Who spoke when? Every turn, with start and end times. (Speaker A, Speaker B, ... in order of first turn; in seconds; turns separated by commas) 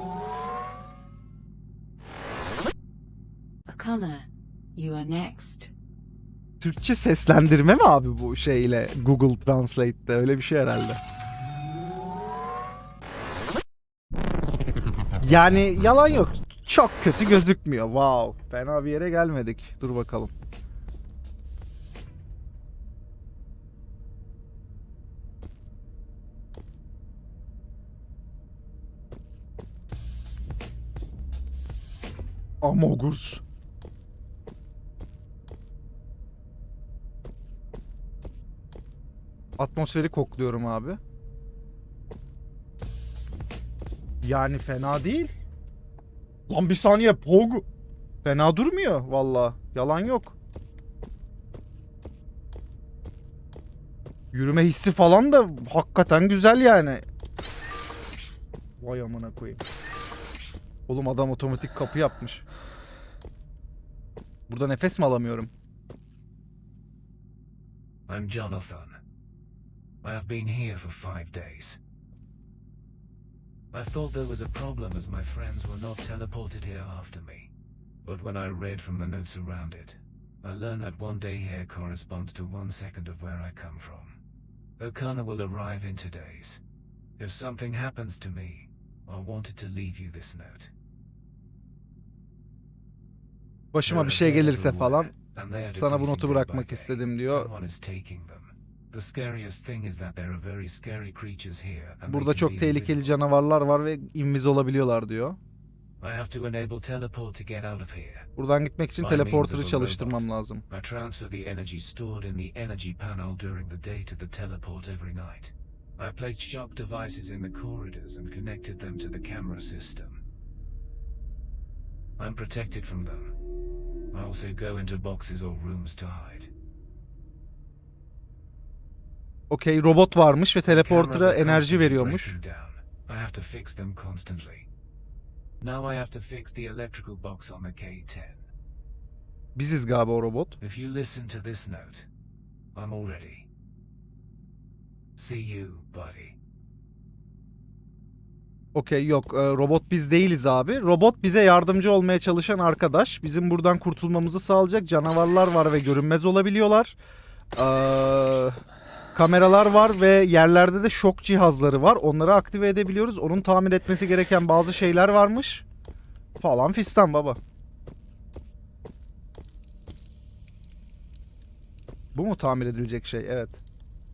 Speaker A: 3.6-5.7, Speaker B: 6.6-11.0, Speaker B: 15.2-20.3, Speaker B: 32.6-33.4, Speaker B: 39.6-41.0, Speaker B: 44.2-45.3, Speaker B: 46.5-47.6, Speaker B: 48.2-50.4, Speaker B: 54.3-57.0, Speaker B: 58.8-59.6, Speaker B: 60.9-62.4, Speaker B: 64.5-65.5, Speaker C: 68.1-69.0, Speaker C: 70.0-71.8, Speaker C: 73.7-77.5, Speaker C: 78.0-84.2, Speaker C: 84.8-86.6, Speaker C: 87.2-90.7, Speaker B: 93.7-95.1, Speaker C: 93.8-103.2, Speaker B: 95.7-97.5, Speaker B: 102.0-105.4, Speaker C: 106.0-108.3, Speaker B: 108.4-110.6, Speaker C: 109.0-120.2, Speaker C: 122.2-123.3, Speaker C: 124.1-126.5, Speaker B: 129.5-132.3, Speaker C: 130.6-134.7, Speaker C: 135.6-138.4, Speaker B: 139.5-140.6, Speaker C: 140.6-142.1, Speaker C: 142.7-143.5, Speaker C: 145.2-146.3, Speaker B: 148.7-157.0, Speaker B: 157.6-158.6, Speaker B: 159.1-165.6, Speaker B: 166.4-167.4, Speaker B: 172.1-173.6